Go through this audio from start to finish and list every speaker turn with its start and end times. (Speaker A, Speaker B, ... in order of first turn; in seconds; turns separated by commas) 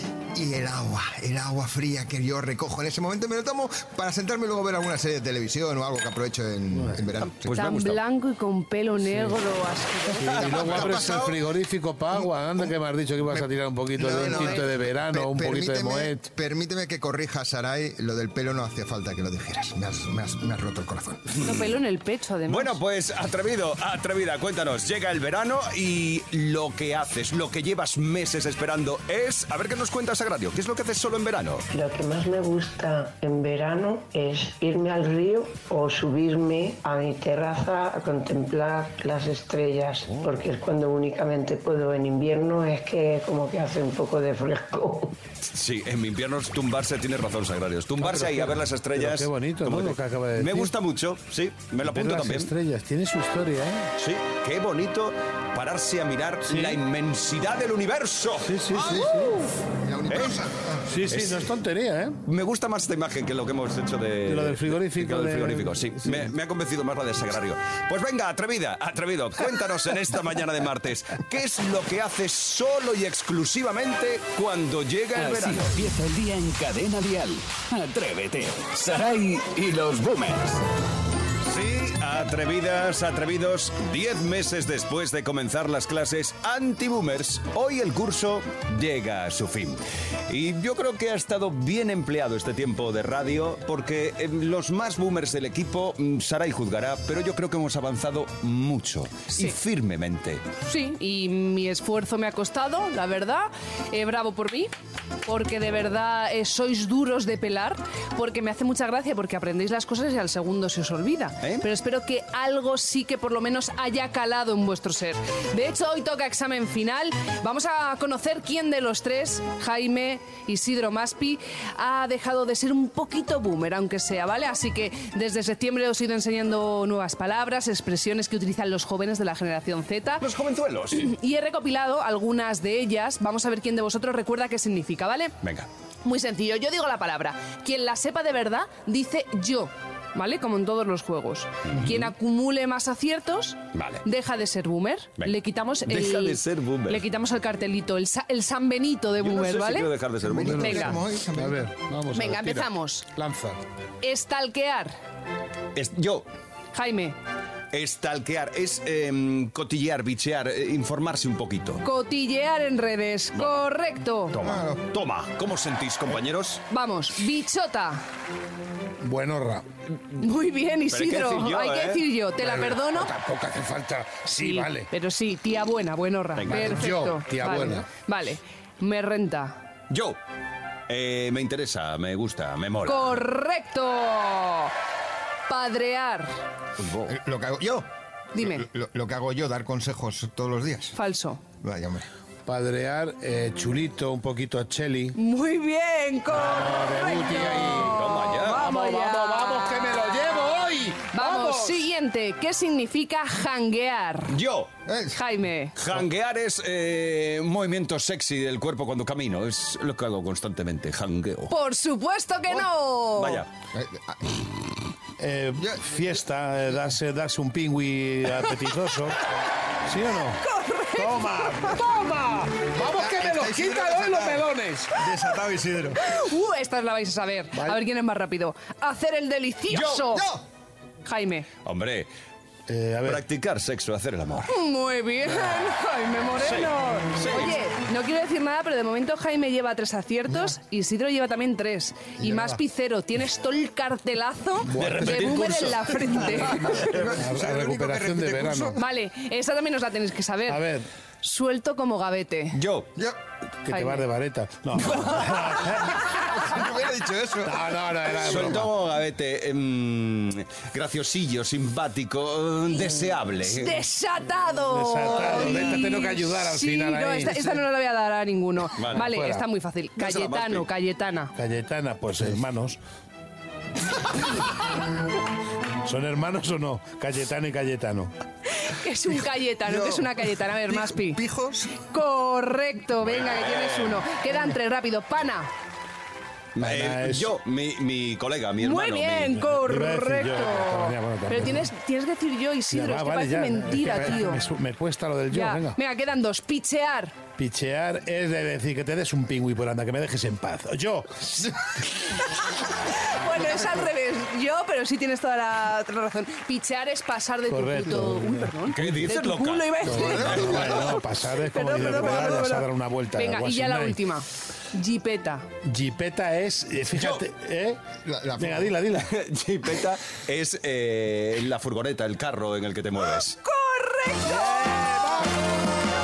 Speaker A: 0.3-7.5, Speaker B: 6.8-7.0, Speaker C: 7.4-8.0, Speaker D: 7.5-10.9, Speaker B: 9.1-9.4, Speaker B: 10.2-16.3, Speaker A: 10.2-11.4, Speaker A: 13.9-21.4, Speaker D: 14.2-14.6, Speaker D: 21.4-22.8, Speaker C: 22.5-31.6, Speaker E: 31.7-45.2, Speaker C: 45.4-52.5, Speaker B: 48.0-50.7, Speaker B: 51.8-53.9, Speaker C: 54.0-59.2, Speaker B: 56.5-56.8, Speaker B: 58.4-59.5, Speaker A: 58.8-61.1, Speaker C: 60.1-60.4, Speaker B: 60.9-62.2, Speaker C: 61.1-61.5, Speaker C: 62.3-75.7, Speaker B: 64.3-66.3, Speaker F: 75.2-80.6, Speaker C: 81.5-100.4, Speaker D: 100.7-104.7, Speaker D: 105.3-130.2, Speaker C: 130.2-131.1, Speaker D: 130.9-135.3, Speaker C: 135.4-135.7, Speaker D: 136.1-149.9, Speaker C: 141.7-142.1, Speaker C: 143.7-144.1, Speaker C: 145.9-147.0, Speaker C: 149.2-150.9, Speaker A: 150.2-151.7, Speaker B: 150.4-153.6, Speaker D: 150.6-151.0, Speaker D: 152.1-153.1, Speaker D: 154.0-154.9, Speaker C: 155.8-156.3, Speaker D: 156.7-157.2, Speaker C: 157.7-161.8, Speaker D: 161.8-164.4, Speaker C: 163.3-163.6, Speaker C: 164.3-166.6, Speaker A: 164.4-164.8, Speaker D: 166.7-168.0, Speaker B: 169.0-169.7, Speaker D: 170.2-173.1, Speaker C: 170.9-172.1, Speaker B: 172.4-174.9, Speaker D: 174.4-179.6, Speaker C: 176.4-176.9, Speaker B: 176.5-177.9, Speaker C: 179.9-180.2, Speaker C: 180.9-183.2, Speaker D: 182.8-184.7, Speaker D: 185.5-186.3, Speaker C: 186.8-187.2, Speaker A: 187.1-191.0, Speaker D: 188.3-188.7, Speaker D: 190.9-191.4, Speaker A: 191.6-192.1, Speaker B: 192.5-195.2, Speaker D: 195.2-200.2, Speaker B: 196.3-201.8, Speaker C: 197.8-198.7, Speaker D: 201.1-204.3, Speaker C: 204.3-204.7, Speaker A: 204.9-205.2, Speaker D: 205.1-205.8, Speaker C: 205.8-211.6, Speaker D: 211.5-213.4, Speaker C: 213.2-213.5, Speaker A: 213.7-214.4, Speaker B: 215.2-219.2, Speaker B: 219.8-225.0, Speaker D: 220.4-221.7, Speaker A: 222.8-226.2, Speaker D: 226.0-230.3, Speaker B: 227.5-227.8, Speaker C: 229.7-230.1, Speaker A: 230.1-230.4, Speaker D: 231.1-231.5, Speaker C: 231.7-232.1, Speaker B: 232.7-233.2, Speaker C: 233.0-234.5, Speaker D: 234.5-246.9, Speaker C: 236.4-237.6, Speaker B: 244.6-245.6, Speaker C: 244.8-247.1, Speaker B: 246.5-248.8, Speaker A: 246.7-248.8, Speaker D: 248.8-250.6, Speaker B: 250.5-250.9, Speaker D: 251.2-252.6, Speaker C: 252.5-252.9, Speaker B: 253.7-256.1, Speaker D: 253.7-254.1, Speaker A: 256.3-257.6, Speaker B: 257.4-258.7, Speaker C: 258.2-263.8, Speaker D: 263.4-271.3, Speaker B: 264.7-267.6, Speaker C: 268.8-269.1, Speaker B: 268.9-269.4, Speaker C: 270.0-270.7, Speaker B: 271.4-272.8, Speaker B: 275.8-278.1, Speaker D: 278.6-281.2, Speaker A: 279.7-281.8, Speaker D: 281.8-285.5, Speaker C: 283.0-284.1, Speaker C: 286.6-289.4, Speaker B: 286.6-287.3, Speaker D: 288.6-294.4, Speaker B: 289.5-291.7, Speaker B: 292.7-295.8, Speaker D: 295.3-297.2, Speaker B: 297.4-301.5, Speaker D: 302.9-315.5, Speaker B: 307.5-309.1, Speaker C: 308.7-310.7, Speaker B: 309.9-314.0, Speaker A: 309.9-311.0, Speaker A: 312.1-312.4, Speaker B: 315.6-317.8, Speaker A: 318.1-318.7, Speaker B: 318.4-319.1, Speaker C: 319.0-323.4, Speaker D: 323.4-325.0, Speaker B: 324.2-325.4